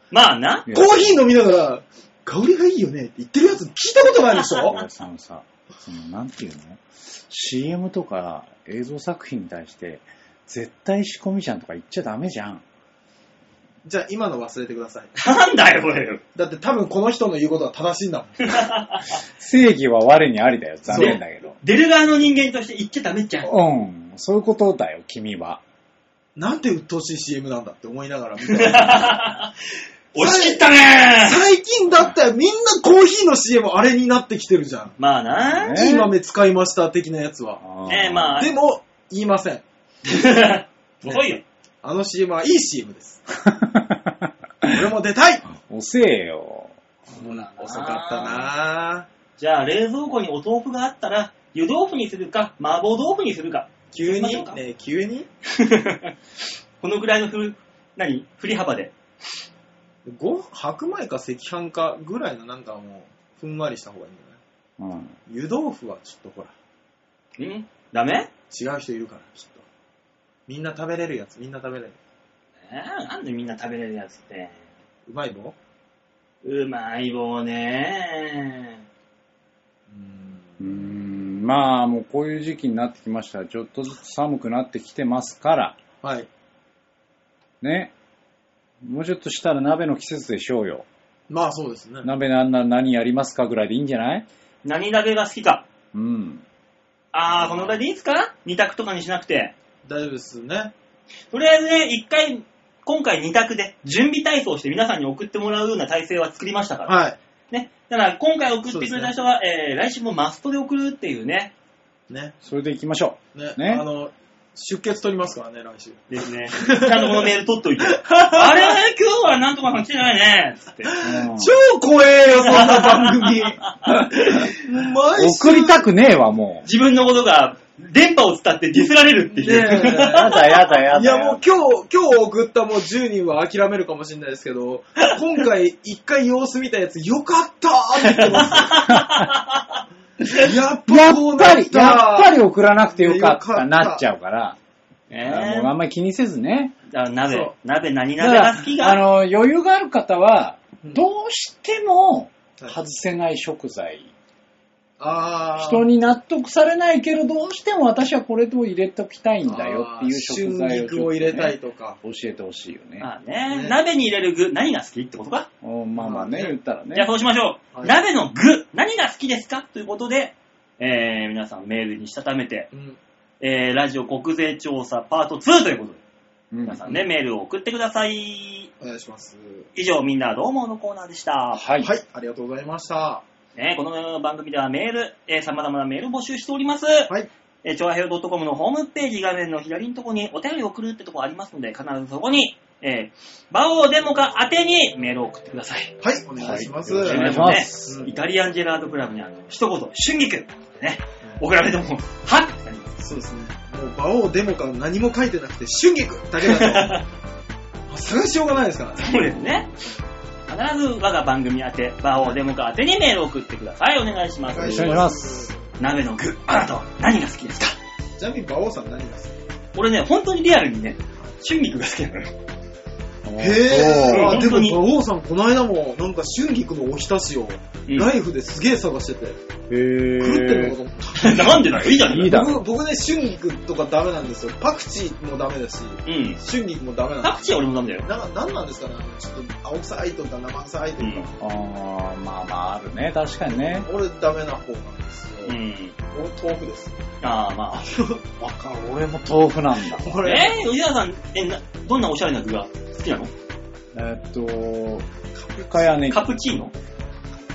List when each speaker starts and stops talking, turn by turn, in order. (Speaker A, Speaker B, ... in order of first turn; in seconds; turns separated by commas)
Speaker A: 0.1-0.7, Speaker B: 0.7-1.3, Speaker C: 0.7-4.8, Speaker B: 4.5-12.6, Speaker C: 13.8-15.2, Speaker A: 15.2-16.2, Speaker C: 16.4-18.6, Speaker A: 18.5-19.0, Speaker B: 19.4-21.6, Speaker C: 20.9-21.2, Speaker A: 20.9-23.5, Speaker B: 23.4-25.6, Speaker C: 26.4-29.3, Speaker A: 28.5-29.5, Speaker A: 30.1-31.4, Speaker C: 30.2-35.0, Speaker A: 35.0-35.8, Speaker B: 35.4-36.1, Speaker C: 35.8-37.6, Speaker B: 37.6-38.5, Speaker A: 37.9-38.5, Speaker C: 38.4-39.6, Speaker A: 40.0-41.4, Speaker C: 41.0-43.2, Speaker B: 43.5-44.9, Speaker C: 44.7-45.5, Speaker B: 45.6-46.8, Speaker C: 47.1-49.1, Speaker A: 47.1-48.5, Speaker A: 49.4-54.6, Speaker C: 53.9-55.3, Speaker A: 55.5-56.1, Speaker A: 56.8-58.9, Speaker C: 60.1-64.4, Speaker B: 64.8-65.2, Speaker C: 65.3-66.5, Speaker A: 67.4-68.3, Speaker C: 68.5-69.6, Speaker C: 70.5-72.0, Speaker A: 72.7-74.6, Speaker C: 75.1-75.6, Speaker A: 76.4-78.8, Speaker C: 79.9-80.7, Speaker B: 80.6-85.8, Speaker C: 86.0-86.3, Speaker B: 87.6-87.9, Speaker B: 88.8-90.9, Speaker C: 91.3-92.1, Speaker B: 92.0-94.2, Speaker A: 94.6-95.7, Speaker B: 95.9-96.4, Speaker A: 97.1-99.5, Speaker C: 97.4-97.7, Speaker C: 99.8-100.7, Speaker A: 101.3-107.0, Speaker C: 106.9-107.2, Speaker A: 107.5-111.5, Speaker C: 108.7-109.1, Speaker C: 112.1-112.3, Speaker B: 112.4-113.8, Speaker C: 113.3-118.8, Speaker A: 116.1-120.9, Speaker C: 120.9-125.9, Speaker B: 121.0-121.5, Speaker A: 122.4-124.5, Speaker B: 125.2-126.7, Speaker A: 126.7-130.3, Speaker C: 129.3-138.9, Speaker B: 130.0-131.4, Speaker A: 138.2-139.8, Speaker B: 138.9-139.3, Speaker C: 140.3-142.4, Speaker B: 140.9-144.6, Speaker C: 142.9-144.0, Speaker A: 145.1-145.7, Speaker B: 145.2-146.8, Speaker A: 146.9-149.0, Speaker C: 147.3-147.5, Speaker B: 148.2-154.1, Speaker C: 155.0-155.9, Speaker B: 155.6-163.1, Speaker C: 159.5-162.0, Speaker A: 163.0-165.5, Speaker C: 163.5-163.8, Speaker B: 165.6-167.1, Speaker C: 166.0-166.5, Speaker A: 166.9-172.7, Speaker C: 172.7-173.0, Speaker A: 173.4-176.0, Speaker B: 176.5-176.8, Speaker A: 176.7-178.7, Speaker C: 178.8-179.7, Speaker A: 179.8-181.6, Speaker B: 181.6-181.9, Speaker C: 181.8-183.2, Speaker A: 183.6-187.1, Speaker A: 187.6-195.9, Speaker C: 196.0-198.1, Speaker B: 196.4-198.1, Speaker A: 197.0-203.0, Speaker C: 203.0-207.0, Speaker A: 206.4-207.1, Speaker C: 207.9-209.7, Speaker A: 209.0-209.7, Speaker A: 210.5-215.1, Speaker C: 214.5-215.6, Speaker B: 214.6-215.5, Speaker A: 215.8-217.8, Speaker C: 218.2-219.3, Speaker A: 219.8-222.3, Speaker B: 223.2-224.5, Speaker C: 223.4-229.4, Speaker A: 224.0-224.8, Speaker B: 229.7-230.8, Speaker C: 230.2-237.5, Speaker A: 231.2-232.4, Speaker B: 231.9-232.6, Speaker A: 236.1-236.4, Speaker A: 237.2-238.1, Speaker C: 238.0-241.4, Speaker A: 241.0-241.3, Speaker B: 241.4-243.9, Speaker C: 243.5-245.6, Speaker A: 245.4-246.0, Speaker C: 246.1-247.0, Speaker A: 247.2-247.9, Speaker C: 247.7-248.2, Speaker B: 248.4-250.2, Speaker C: 249.9-250.6, Speaker A: 250.2-253.3, Speaker B: 253.9-255.1, Speaker C: 255.3-255.9, Speaker B: 255.7-256.2, Speaker A: 256.1-256.7